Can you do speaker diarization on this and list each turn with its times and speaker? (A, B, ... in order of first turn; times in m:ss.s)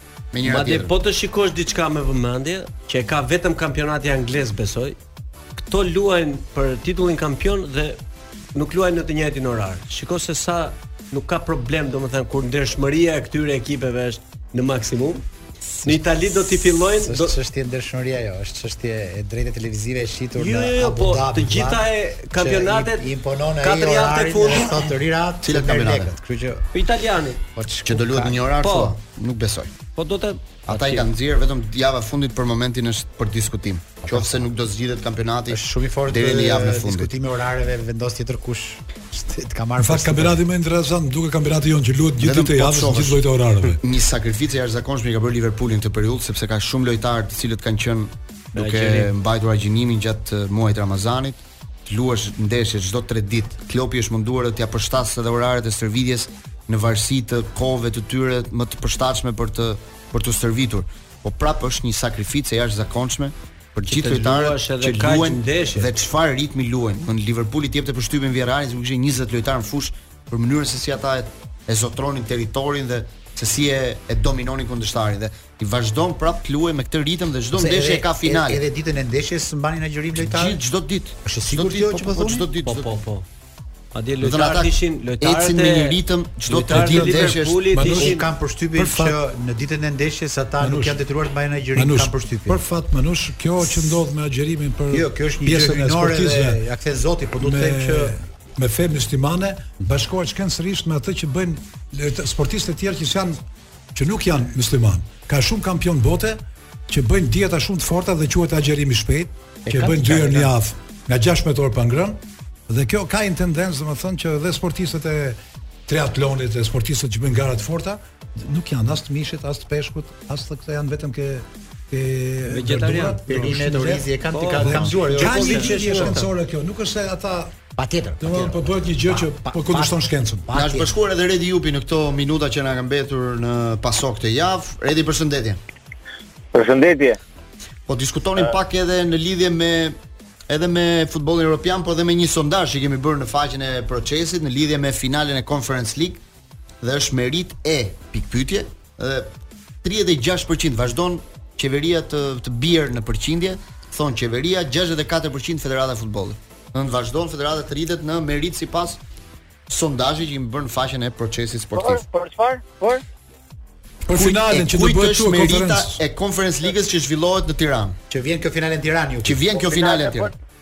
0:00.3-0:00.9 A
0:00.4-0:05.0 B
0:05.6-0:08.0 B
0:08.6-0:15.2 B
0:15.8-0:26.7 C
0:15.8-0:17.4 B
0:20.4-0:24.9 B
0:25.4-0:26.1 A
0:26.7-0:27.4 B
0:27.6-0:28.4 C
0:27.9-0:29.7 A
0:28.6-0:29.0 B
0:30.0-0:31.1 B
0:30.7-0:37.1 A
0:34.0-0:34.5 C
0:35.5-0:40.4 C
0:39.8-0:43.8 D
0:42.2-0:43.2 A
0:43.8-1:18.6 A
0:48.6-0:49.1 B
1:03.8-1:05.9 B
1:17.5-1:20.6 C
1:20.2-1:23.0 A
1:21.2-1:22.5 C
1:22.6-1:23.2 B
1:23.9-1:28.3 B
1:24.2-1:27.9 A
1:26.7-1:28.2 D
1:27.8-1:32.6 C
1:28.8-1:29.2 D
1:30.6-1:31.0 D
1:31.8-1:36.6 D
1:34.9-1:38.2 C
1:37.4-1:43.4 D
1:44.0-2:07.6 D
1:49.7-1:50.5 C
2:02.5-2:03.2 B
2:03.3-2:06.2 C
2:04.3-2:06.3 B
2:07.8-2:11.0 C
2:08.2-2:10.5 D
2:10.5-2:15.6 A
2:16.5-2:17.2 E
2:17.9-2:20.0 A
2:20.5-2:26.2 A
2:26.8-2:29.3 A
2:29.8-2:39.0 A
2:39.7-2:42.0 A
2:41.8-2:43.0 E
2:44.1-2:46.0 D
2:44.1-2:48.0 A
2:48.1-2:49.4 C
2:49.2-2:50.3 A
2:49.5-2:50.4 E